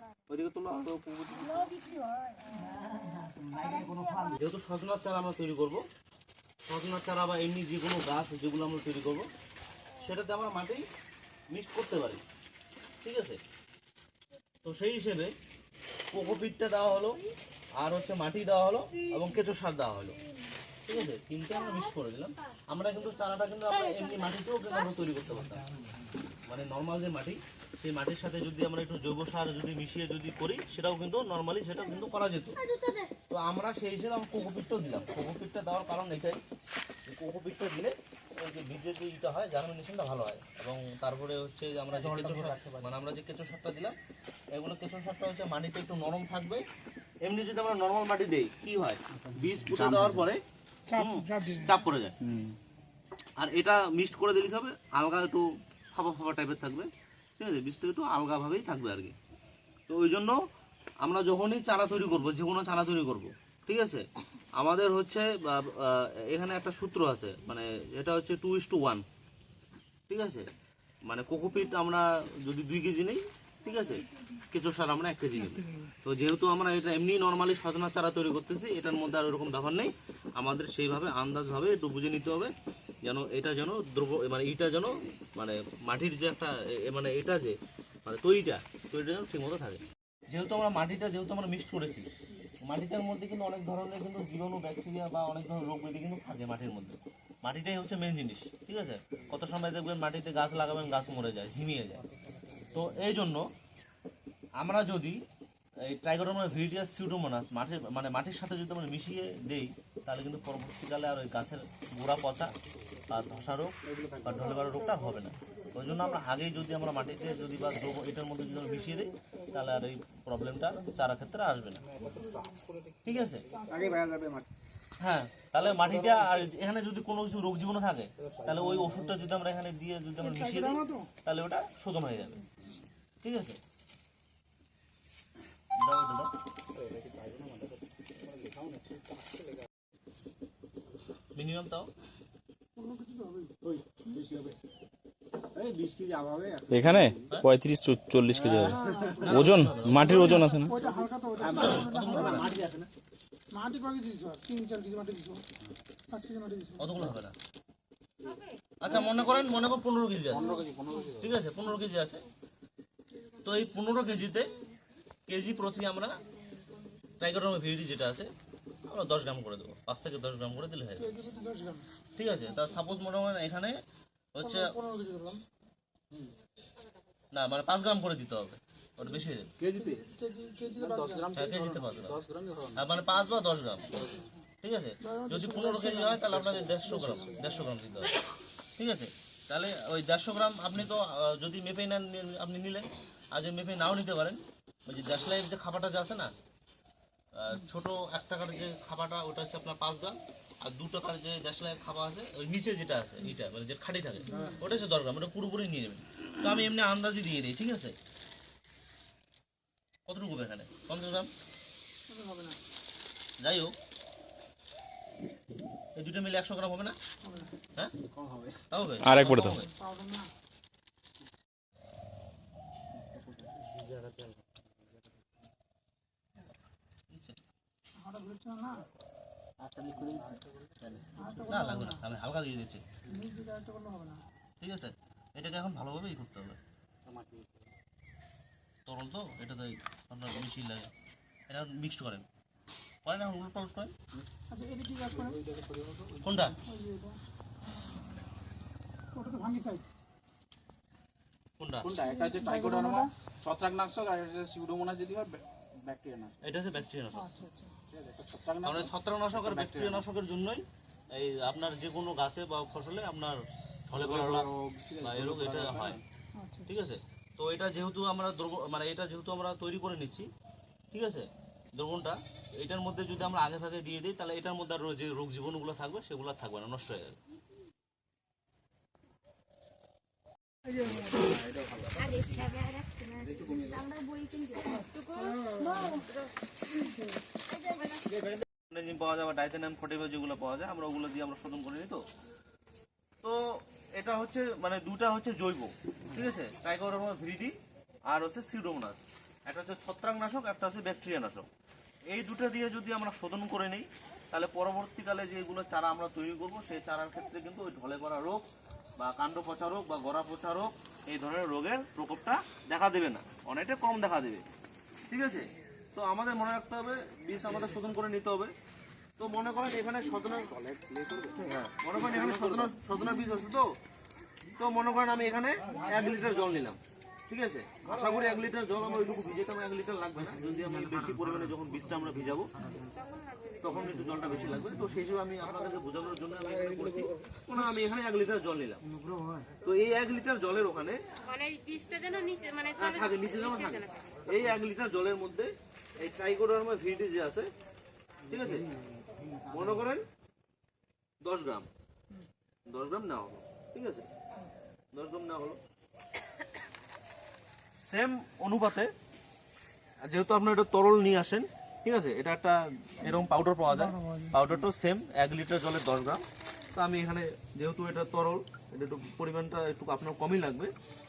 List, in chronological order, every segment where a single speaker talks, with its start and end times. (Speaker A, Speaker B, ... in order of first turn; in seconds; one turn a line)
Speaker A: 0.3-1.8
Speaker B: 1.8-2.4
Speaker C: 3.5-4.1
Speaker B: 3.7-4.2
Speaker D: 3.9-4.3
Speaker A: 4.3-5.8
Speaker A: 6.7-9.3
Speaker A: 10.0-10.8
Speaker A: 11.5-12.2
Speaker A: 13.0-13.4
Speaker A: 14.6-15.3
Speaker A: 16.1-20.2
Speaker A: 20.9-25.7
Speaker A: 26.5-32.6
Speaker B: 32.7-33.1
Speaker A: 33.3-36.4
Speaker A: 37.1-44.0
Speaker C: 41.9-42.9
Speaker A: 44.5-46.6
Speaker A: 47.2-50.4
Speaker C: 49.3-50.3
Speaker E: 50.9-51.8
Speaker A: 50.9-52.2
Speaker C: 52.3-52.5
Speaker A: 53.4-59.1
Speaker A: 59.9-60.4
Speaker A: 61.0-64.1
Speaker A: 64.6-69.0
Speaker A: 70.1-70.5
Speaker A: 71.0-82.5
Speaker A: 83.0-92.1
Speaker A: 92.6-102.0
Speaker C: 102.3-102.9
Speaker A: 102.7-103.5
Speaker A: 104.6-105.2
Speaker A: 105.9-112.5
Speaker A: 113.1-121.9
Speaker C: 121.9-124.4
Speaker A: 123.0-123.5
Speaker E: 123.5-124.1
Speaker A: 125.0-132.4
Speaker C: 128.2-129.1
Speaker E: 130.2-131.1
Speaker A: 133.2-133.6
Speaker A: 135.8-136.3
Speaker C: 136.8-139.0
Speaker A: 141.3-141.9
Speaker E: 142.8-143.5
Speaker D: 144.0-144.5
Speaker D: 145.6-146.7
Speaker F: 146.7-150.8
Speaker C: 146.7-147.1
Speaker E: 148.5-152.7
Speaker A: 149.2-150.2
Speaker A: 151.5-152.6
Speaker D: 152.6-152.9
Speaker E: 153.5-155.4
Speaker E: 156.1-156.9
Speaker A: 156.8-157.4
Speaker C: 158.3-159.6
Speaker A: 158.8-160.6
Speaker C: 160.3-161.4
Speaker A: 161.2-162.2
Speaker A: 163.4-164.6
Speaker A: 165.3-166.2
Speaker B: 166.5-167.0
Speaker A: 167.2-168.3
Speaker A: 168.9-171.3
Speaker E: 170.9-171.9
Speaker A: 172.2-173.8
Speaker A: 174.3-174.7
Speaker E: 174.4-175.4
Speaker A: 177.3-179.5
Speaker C: 179.6-180.1
Speaker E: 179.7-181.3
Speaker C: 180.8-182.9
Speaker A: 181.3-182.2
Speaker A: 182.8-184.1
Speaker C: 183.9-184.3
Speaker A: 184.6-188.2
Speaker E: 185.0-187.7
Speaker C: 186.1-187.6
Speaker A: 188.8-196.3
Speaker A: 197.3-207.9
Speaker E: 204.3-204.7
Speaker A: 210.1-211.3
Speaker E: 212.1-212.6
Speaker A: 213.4-213.7
Speaker A: 215.9-217.0
Speaker E: 217.2-217.5
Speaker C: 218.1-218.6
Speaker A: 218.7-219.7
Speaker F: 219.0-219.6
Speaker E: 219.5-220.3
Speaker C: 223.6-224.2
Speaker A: 227.1-227.4
Speaker E: 228.0-228.8
Speaker C: 229.6-231.6
Speaker E: 231.2-232.0
Speaker A: 231.5-232.8
Speaker E: 233.1-234.2
Speaker A: 234.6-236.6
Speaker C: 237.1-237.7
Speaker A: 238.9-240.9
Speaker A: 241.5-242.2
Speaker A: 243.1-243.9
Speaker E: 244.5-245.4
Speaker C: 245.1-246.5
Speaker A: 246.2-246.6
Speaker E: 246.6-247.2
Speaker E: 249.1-249.8
Speaker A: 251.6-252.0
Speaker C: 251.8-256.4
Speaker E: 252.0-253.1
Speaker A: 256.4-257.3
Speaker E: 257.1-257.7
Speaker C: 257.9-260.1
Speaker A: 258.6-264.5
Speaker C: 263.9-266.0
Speaker A: 265.0-266.0
Speaker E: 266.4-266.7
Speaker A: 266.7-270.3
Speaker A: 270.9-277.2
Speaker C: 280.9-282.4
Speaker B: 282.0-285.2
Speaker C: 283.2-283.8
Speaker E: 285.5-286.1
Speaker A: 288.6-292.1
Speaker A: 293.9-297.5
Speaker A: 298.1-301.5
Speaker A: 302.1-308.4
Speaker A: 309.0-314.4
Speaker A: 315.1-318.5
Speaker A: 319.2-320.5
Speaker C: 320.5-321.6
Speaker A: 321.3-323.7
Speaker C: 322.4-322.7
Speaker A: 324.6-332.5
Speaker A: 333.6-338.8
Speaker A: 339.6-341.0
Speaker B: 341.3-342.7
Speaker A: 342.7-347.5
Speaker A: 348.3-348.7
Speaker A: 349.5-350.1
Speaker A: 351.2-351.7
Speaker A: 352.7-354.1
Speaker A: 354.9-355.6
Speaker A: 357.8-358.9
Speaker A: 360.0-370.7
Speaker E: 363.7-364.4